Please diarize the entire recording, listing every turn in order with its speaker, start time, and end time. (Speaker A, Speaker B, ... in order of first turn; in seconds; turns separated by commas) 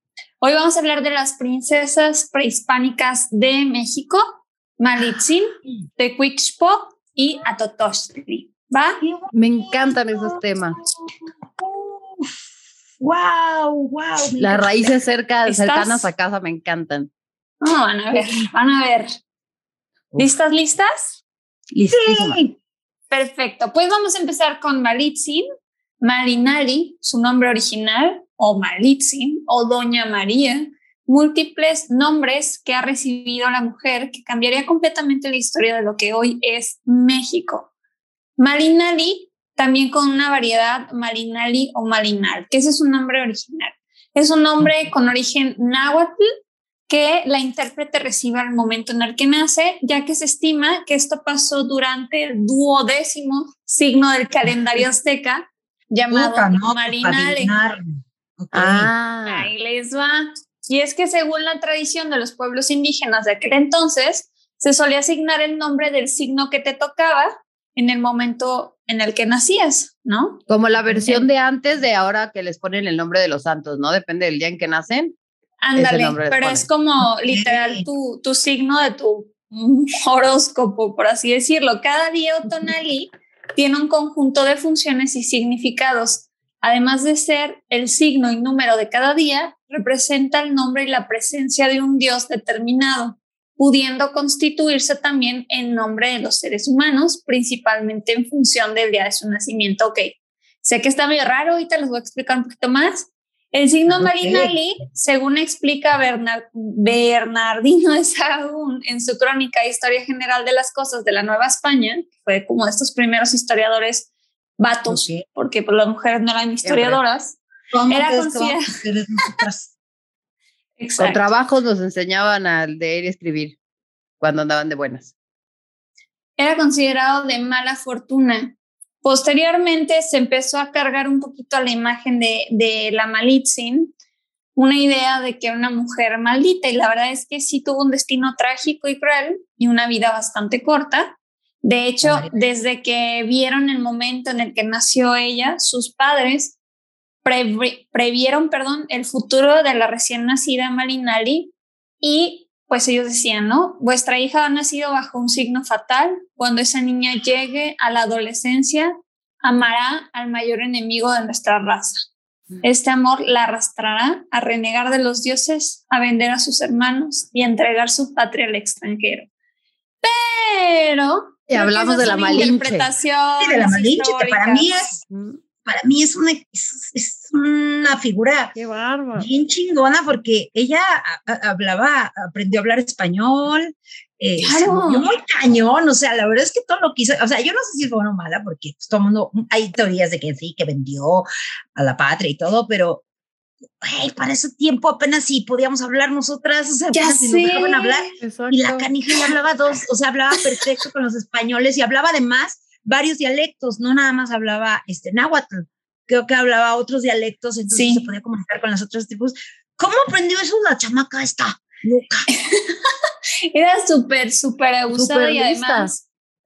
Speaker A: 0.4-9.0, Speaker B: 9.0-12.4, Speaker C: 9.3-10.8, Speaker B: 13.0-15.0, Speaker C: 14.4-17.1, Speaker A: 15.4-16.1, Speaker A: 17.6-19.2, Speaker A: 20.1-21.2, Speaker C: 21.7-22.4, Speaker B: 21.9-22.6, Speaker A: 23.1-25.4, Speaker A: 26.0-37.7, Speaker A: 38.4-46.2, Speaker A: 46.9-57.5, Speaker B: 56.1-58.9, Speaker C: 58.5-59.5, Speaker A: 59.2-71.3, Speaker C: 70.5-75.1, Speaker A: 75.6-117.4, Speaker C: 75.8-76.7, Speaker B: 77.3-77.9, Speaker B: 103.9-104.5, Speaker B: 114.9-115.2, Speaker C: 116.6-117.0, Speaker B: 117.7-119.7, Speaker A: 117.9-118.7, Speaker A: 120.8-121.3, Speaker C: 121.0-123.6, Speaker C: 124.2-125.1, Speaker A: 126.4-133.9, Speaker A: 134.6-146.6, Speaker B: 142.0-142.4, Speaker A: 147.2-162.1, Speaker A: 162.6-169.3, Speaker A: 170.0-174.7, Speaker C: 171.5-172.9, Speaker B: 173.4-175.0, Speaker C: 175.1-175.4, Speaker B: 175.7-178.6, Speaker C: 178.5-179.3, Speaker B: 179.2-193.0, Speaker A: 184.4-185.0, Speaker B: 193.8-212.3, Speaker A: 196.9-198.2, Speaker C: 198.2-198.9, Speaker A: 207.7-208.1, Speaker A: 212.3-212.7, Speaker A: 213.5-216.0, Speaker C: 214.9-215.9